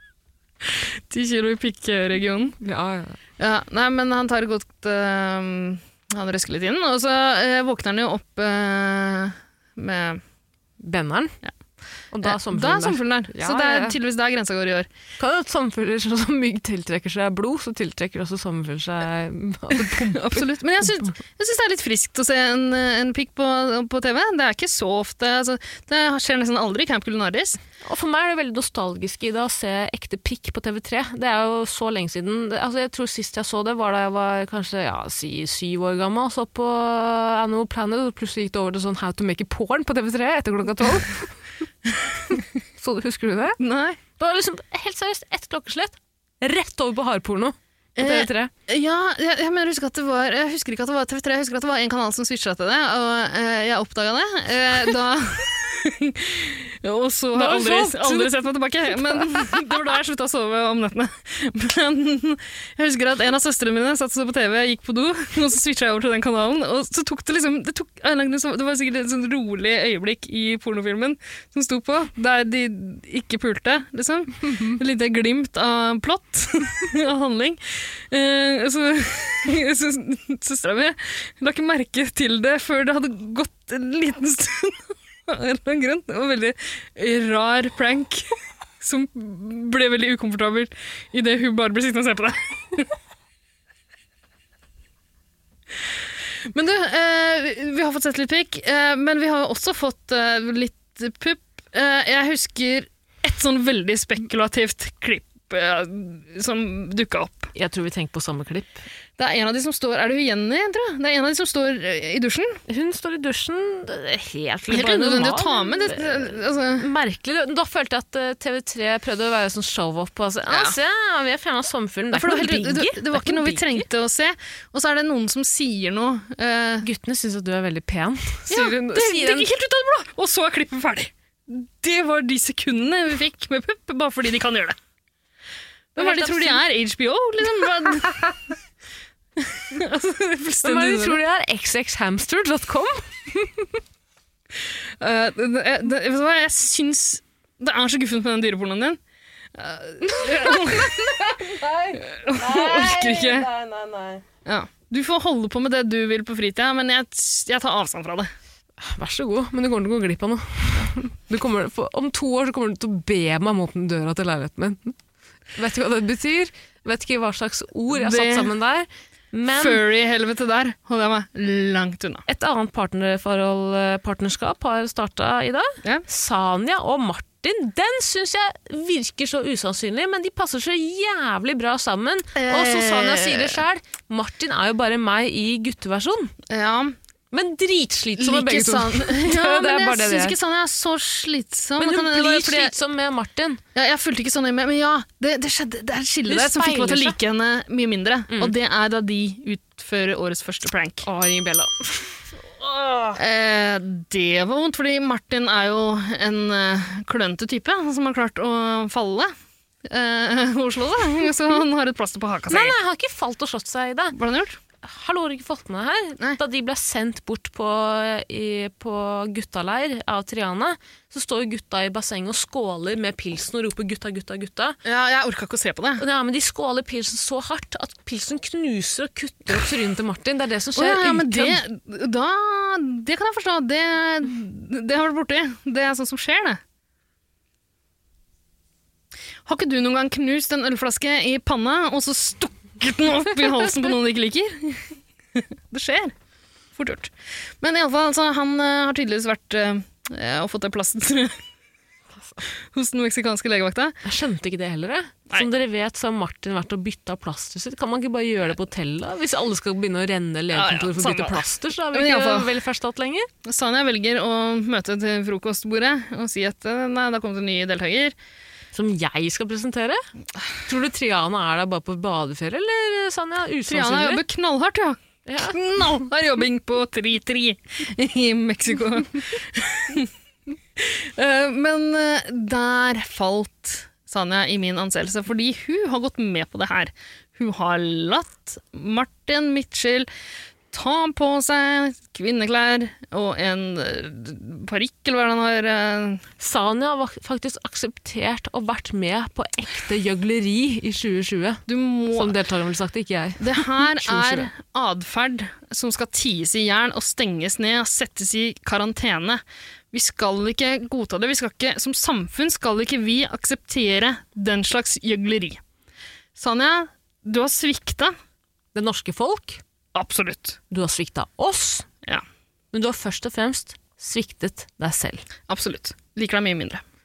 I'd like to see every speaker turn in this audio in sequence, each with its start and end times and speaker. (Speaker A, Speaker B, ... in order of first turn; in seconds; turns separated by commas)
Speaker A: 0.6-2.6, Speaker B: 2.6-3.2, Speaker A: 3.4-10.2, Speaker B: 10.8-11.4, Speaker B: 12.1-14.0, Speaker A: 12.2-14.9, Speaker B: 15.2-21.1, Speaker A: 19.7-27.6, Speaker B: 27.8-41.4, Speaker B: 42.3-43.6, Speaker A: 43.6-44.0, Speaker B: 44.2-48.5, Speaker A: 48.0-88.3, Speaker B: 57.3-59.7, Speaker B: 74.5-74.8, Speaker A: 88.8-92.9, Speaker A: 96.5-107.5, Speaker B: 107.5-108.8, Speaker A: 109.2-112.6, Speaker B: 112.7-123.8, Speaker A: 114.7-116.9, Speaker A: 120.5-120.8, Speaker A: 122.1-126.8, Speaker B: 126.8-129.5, Speaker A: 128.5-134.8, Speaker A: 135.9-138.3, Speaker B: 135.9-136.6, Speaker A: 139.4-141.2, Speaker B: 140.6-143.7, Speaker A: 145.0-149.0, Speaker A: 149.5-151.2, Speaker B: 150.0-154.2, Speaker A: 152.0-153.5, Speaker A: 154.4-158.3, Speaker B: 158.8-164.9, Speaker B: 165.5-169.8, Speaker A: 167.9-168.5, Speaker A: 169.5-172.2, Speaker B: 172.3-186.3, Speaker A: 182.3-183.6, Speaker A: 186.5-186.9, Speaker B: 187.3-190.3, Speaker A: 188.2-192.7, Speaker B: 191.8-193.6, Speaker A: 193.7-201.1, Speaker B: 196.3-197.2, Speaker B: 198.3-198.5, Speaker B: 201.0-203.2, Speaker A: 203.2-209.3, Speaker A: 209.8-212.7, Speaker B: 212.5-214.1, Speaker A: 214.1-214.6, Speaker B: 214.8-224.8, Speaker A: 224.8-226.0, Speaker B: 226.0-231.6, Speaker A: 230.8-236.6, Speaker A: 239.4-246.1, Speaker A: 246.7-251.4, Speaker A: 252.7-254.0, Speaker B: 254.0-263.3, Speaker A: 260.5-262.5, Speaker A: 263.4-268.1, Speaker B: 268.7-270.0, Speaker B: 270.6-274.2, Speaker A: 273.7-280.1, Speaker B: 275.2-275.6, Speaker A: 280.8-290.1, Speaker A: 290.7-296.2, Speaker B: 296.4-301.6, Speaker A: 301.7-302.3, Speaker B: 302.1-304.5, Speaker A: 303.4-315.6, Speaker A: 316.4-318.1, Speaker B: 318.7-319.6, Speaker A: 319.9-320.6, Speaker B: 320.7-321.9, Speaker B: 322.7-325.2, Speaker A: 325.5-326.8